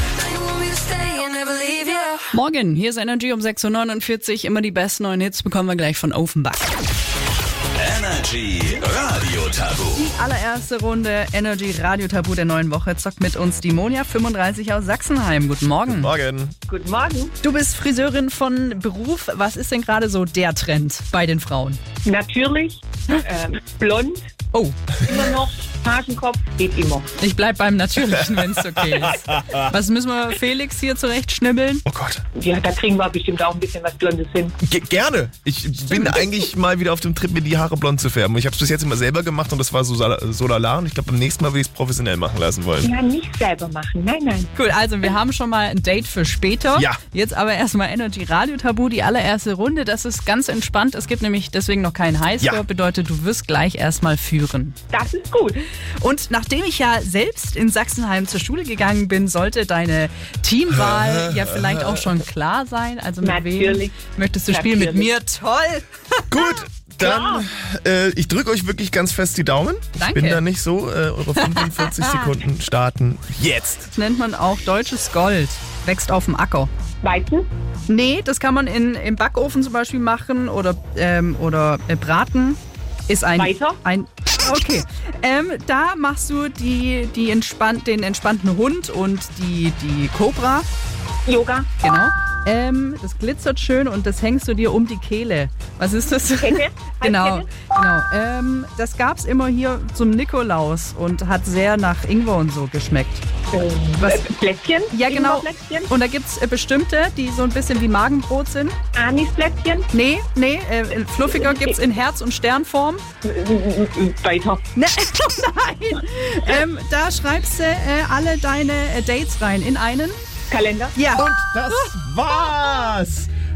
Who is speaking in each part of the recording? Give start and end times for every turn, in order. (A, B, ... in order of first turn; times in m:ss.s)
0:00.2-0:02.3 A
0:00.6-0:01.2 B
0:02.3-0:06.8 C
0:07.8-0:10.0 A
0:09.9-0:16.1 C
0:15.9-0:16.6 D
0:16.7-0:17.4 B
0:17.4-0:21.8 C
0:22.0-0:24.2 B
0:24.5-0:24.8 C
0:25.0-0:27.1 B
0:27.2-0:31.8 C
0:31.9-0:32.2 D
0:32.4-0:34.6 B
0:34.6-0:42.9 D
0:42.8-0:44.5 B
0:44.6-0:54.8 C
0:54.9-0:55.6 B
0:56.0-1:06.6 C
1:00.8-1:02.1 D
1:03.2-1:04.0 B
1:04.5-1:05.1 B
1:06.3-1:13.9 D
1:07.0-1:07.5 B
1:10.0-1:10.4 C
1:11.4-1:12.3 C
1:14.0-1:16.7 C
1:17.0-1:17.5 B
1:17.9-1:30.7 C
1:23.4-1:23.8 B
1:31.3-1:31.7 B
1:31.8-1:43.2 C
1:36.4-1:37.7 B
1:43.5-1:45.9 B
1:44.0-1:44.3 C
1:44.9-1:48.8 C
1:49.0-1:49.9 B
1:49.9-1:53.0 C
1:51.2-1:51.8 B
1:53.2-1:54.7 B
1:54.8-2:00.2 C
2:00.5-2:01.0 B
2:01.0-2:02.6 C
2:01.2-2:03.3 D